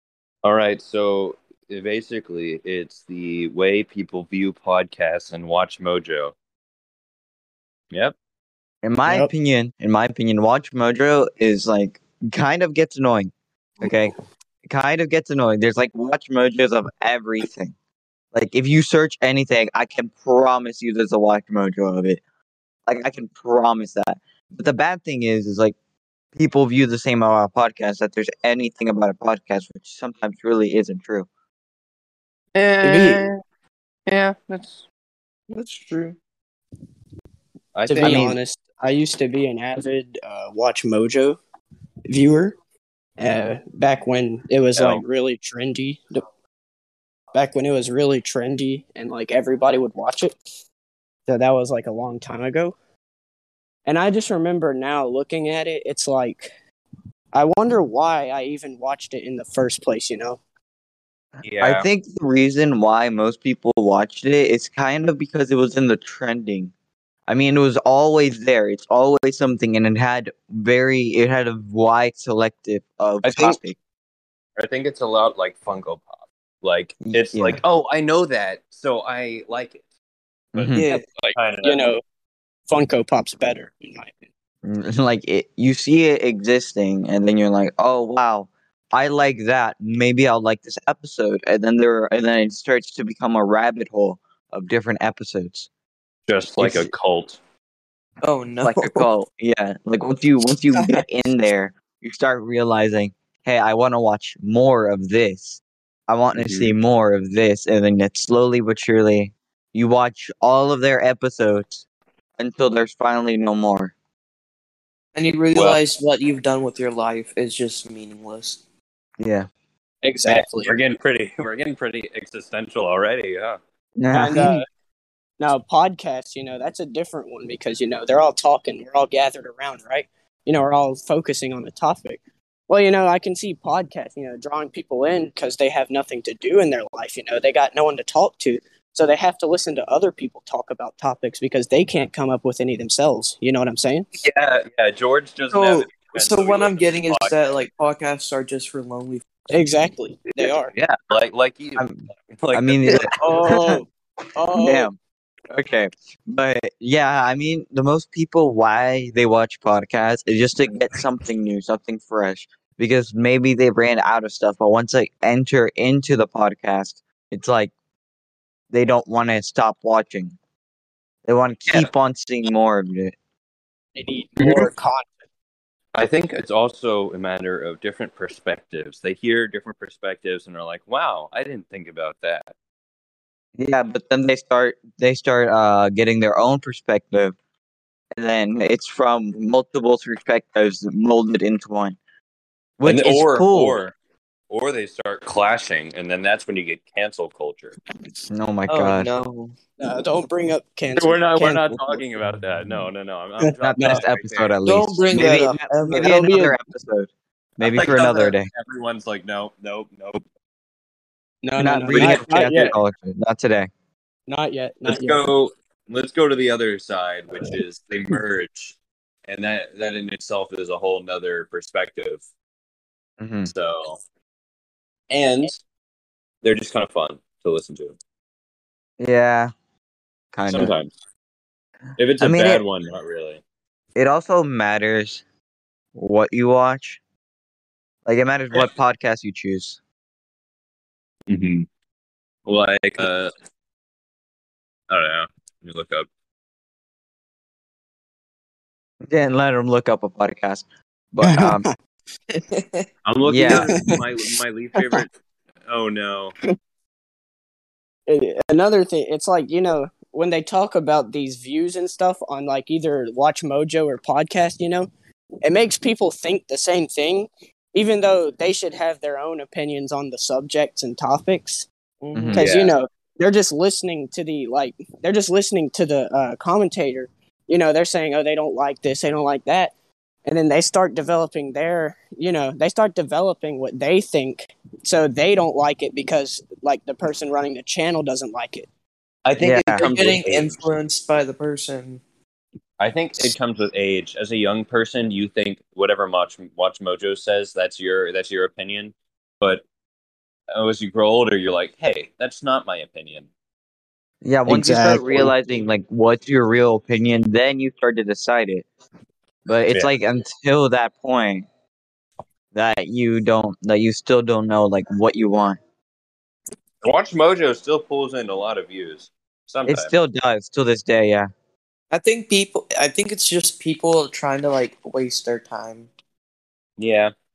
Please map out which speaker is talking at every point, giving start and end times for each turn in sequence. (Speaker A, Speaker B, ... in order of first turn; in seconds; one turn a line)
Speaker A: 0.4-6.3
Speaker B: 8.8-14.1
Speaker B: 14.7-17.7
Speaker B: 18.3-22.2
Speaker B: 22.9-25.7
Speaker B: 26.3-31.3
Speaker A: 32.5-33.4
Speaker C: 32.8-33.3
Speaker A: 34.1-34.8
Speaker A: 35.5-36.2
Speaker A: 37.7-38.3
Speaker C: 37.9-41.4
Speaker B: 38.0-38.4
Speaker C: 42.1-42.5
Speaker C: 43.2-46.2
Speaker A: 44.8-45.0
Speaker C: 47.3-50.3
Speaker C: 51.3-52.7
Speaker C: 53.9-56.5
Speaker C: 57.3-60.4
Speaker A: 61.4-61.9
Speaker B: 61.6-66.7
Speaker B: 67.3-73.8
Speaker A: 73.2-73.6
Speaker A: 74.6-79.8
Speaker B: 77.0-77.6
Speaker B: 80.5-80.9
Speaker A: 80.5-81.9
Speaker D: 80.7-81.3
Speaker C: 81.6-82.0
Speaker C: 82.7-84.1
Speaker B: 84.6-95.7
Speaker A: 96.3-97.4
Speaker B: 96.6-96.9
Speaker D: 98.2-99.1
Speaker B: 98.6-111.8
Speaker A: 106.3-106.7
Speaker B: 112.4-113.9
Speaker D: 115.2-118.6
Speaker A: 115.5-115.8
Speaker B: 119.2-119.5
Speaker C: 120.0-120.7
Speaker A: 120.2-123.6
Speaker B: 124.0-124.6
Speaker C: 124.1-124.6
Speaker C: 125.4-144.1
Speaker A: 144.2-147.3
Speaker D: 145.5-149.3
Speaker C: 149.5-150.7
Speaker A: 150.4-153.2
Speaker B: 151.8-152.0
Speaker B: 152.5-153.8
Speaker C: 153.1-154.9
Speaker B: 154.5-154.9
Speaker B: 155.5-167.7
Speaker B: 168.7-170.3
Speaker B: 171.2-173.2
Speaker C: 173.9-175.1
Speaker A: 175.9-182.5
Speaker B: 183.6-187.3
Speaker B: 188.1-192.0
Speaker B: 192.8-193.8
Speaker A: 192.8-193.9
Speaker A: 194.5-197.7
Speaker B: 198.3-199.1
Speaker D: 198.7-199.5
Speaker C: 199.8-202.0
Speaker A: 200.9-204.6
Speaker B: 203.6-208.5
Speaker D: 204.6-206.2
Speaker C: 206.0-206.6
Speaker A: 207.6-210.2
Speaker C: 211.4-212.8
Speaker B: 211.6-213.7
Speaker A: 211.9-212.2
Speaker C: 214.3-215.2
Speaker A: 214.8-222.2
Speaker B: 223.2-223.5
Speaker A: 223.4-224.0
Speaker A: 225.1-225.6
Speaker A: 226.4-227.9
Speaker B: 229.0-229.5
Speaker B: 230.3-230.7
Speaker A: 230.5-230.9
Speaker A: 232.0-233.4
Speaker B: 232.2-232.6
Speaker B: 233.9-235.2
Speaker B: 235.9-237.0
Speaker B: 238.1-239.8
Speaker A: 241.3-241.7
Speaker A: 242.4-243.3
Speaker A: 244.9-246.1
Speaker B: 249.1-251.6
Speaker C: 251.2-251.7
Speaker D: 252.3-252.8
Speaker A: 253.0-255.1
Speaker B: 253.2-253.7
Speaker C: 253.5-253.9
Speaker C: 254.8-255.0
Speaker A: 255.7-256.3
Speaker C: 258.1-264.9
Speaker C: 265.4-271.7
Speaker D: 272.0-272.4
Speaker B: 272.1-272.4
Speaker C: 272.3-279.7
Speaker A: 272.3-272.7
Speaker C: 280.2-288.7
Speaker A: 289.2-290.6
Speaker B: 289.4-289.9
Speaker D: 289.7-292.0
Speaker A: 292.8-299.6
Speaker A: 300.5-303.3
Speaker B: 304.2-308.6
Speaker C: 304.5-305.3
Speaker B: 309.4-311.5
Speaker B: 312.5-315.6
Speaker A: 316.8-319.9
Speaker B: 319.7-321.3
Speaker D: 321.9-325.9
Speaker A: 326.8-327.1